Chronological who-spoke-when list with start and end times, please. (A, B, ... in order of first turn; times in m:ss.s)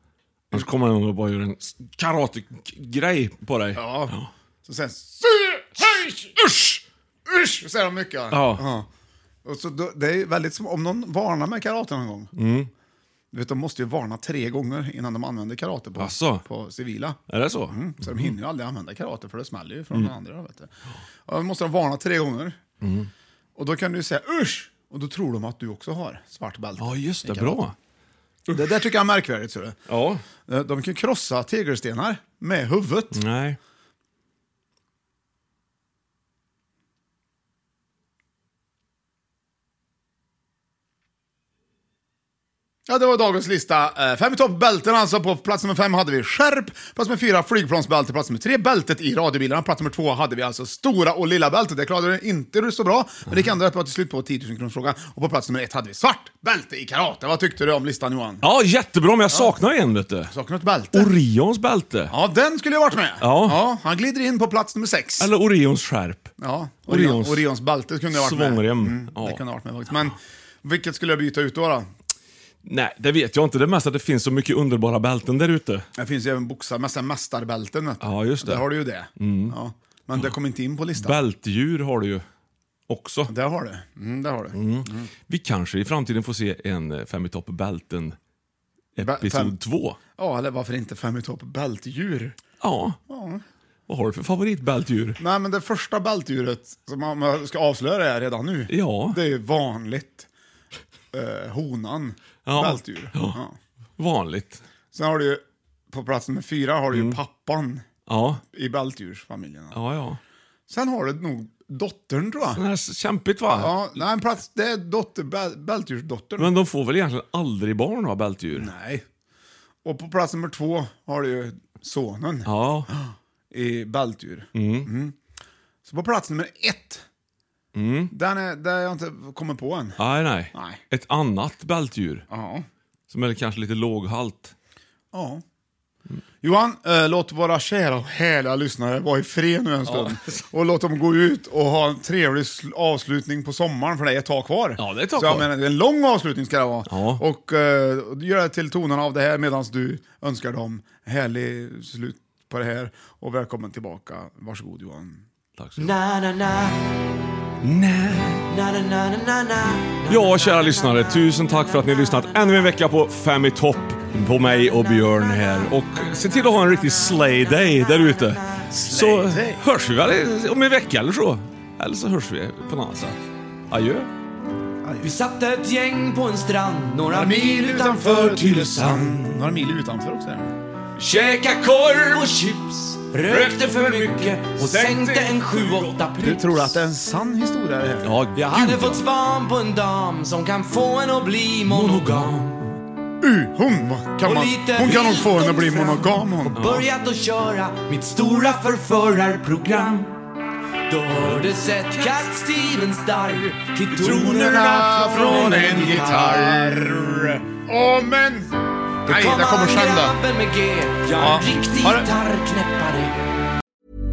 0:00.5-0:04.3 A
0:03.7-0:04.1 B
0:04.6-0:08.9 B
0:08.3-0:08.6 A
0:09.4-0:12.3 B
0:12.4-0:12.7 A
0:13.3-0:20.7 B
0:16.0-0:16.4 A
0:17.3-0:18.3 A
0:21.2-0:22.6 B
0:22.8-0:23.1 A
0:23.6-0:27.6 B
0:26.8-0:27.8 A
0:28.5-0:29.8 B
0:29.9-0:30.2 A
0:30.4-0:33.2 B
0:33.1-0:33.6 A
0:42.8-0:58.4 B
0:58.4-1:00.3 A
0:59.3-0:59.5 B
1:00.3-1:01.1 B
1:00.9-1:02.1 A
1:02.1-1:05.3 B
1:03.2-1:03.6 A
1:05.2-1:06.3 A
1:06.4-1:11.9 B
1:06.9-1:07.5 A
1:08.1-1:09.4 A
1:12.6-1:15.8 A
1:16.0-1:21.2 B
1:18.0-1:19.6 A
1:21.0-1:22.2 A
1:22.9-1:23.3 A
1:23.3-1:25.1 B
1:24.5-1:28.2 A
1:29.0-1:30.0 A
1:29.0-1:29.6 B
1:30.2-1:32.4 B
1:32.6-1:33.0 A
1:33.1-1:33.4 B
1:33.9-1:35.2 A
1:35.2-1:40.3 B
1:38.7-1:39.2 A
1:41.1-1:43.6 B
1:42.4-1:43.4 A
1:44.0-1:44.6 A
1:44.9-1:47.8 B
1:46.9-1:47.2 A
1:48.1-1:48.4 A
1:48.5-1:49.8 B
1:49.7-1:50.2 A
1:50.7-1:52.6 B
1:52.5-1:53.8 A
1:53.5-1:56.5 B
1:56.4-1:58.7 A
1:58.6-1:59.0 B
1:59.8-2:05.2 B
2:02.4-2:02.9 A
2:04.5-2:04.9 A
2:05.8-2:07.0 B
2:07.7-2:08.1 A
2:08.1-2:10.0 B
2:10.0-2:12.2 A
2:10.5-2:10.8 B
2:12.3-2:12.7 B
2:13.1-2:14.5 A
2:15.1-2:15.4 B
2:16.4-2:35.2 B
2:19.8-2:20.4 A
2:24.8-2:25.5 A
2:26.9-2:27.2 A
2:35.6-2:36.0 A
2:35.8-2:36.7 C
2:37.6-2:38.4 A
2:38.5-2:40.7 C
2:40.1-2:54.1 A
2:48.7-2:49.6 B
2:54.8-2:55.1 B
2:55.0-2:58.8 C
2:57.1-3:00.5 B
2:58.9-2:59.2 A
3:01.0-3:01.6 C
3:01.6-3:02.2 A
3:02.1-3:06.2 C
3:03.2-3:06.7 A
3:06.2-3:09.0 B
3:08.0-3:08.9 A
3:08.4-3:12.4 C
3:11.6-3:12.8 A
3:13.2-3:16.6 B
3:14.2-3:20.1 C
3:16.5-3:16.9 A
3:20.9-3:26.6 C
3:21.2-3:22.3 A
3:24.0-3:28.5 B
3:29.0-3:30.2 B
3:29.1-3:33.1 C
3:31.2-3:32.1 B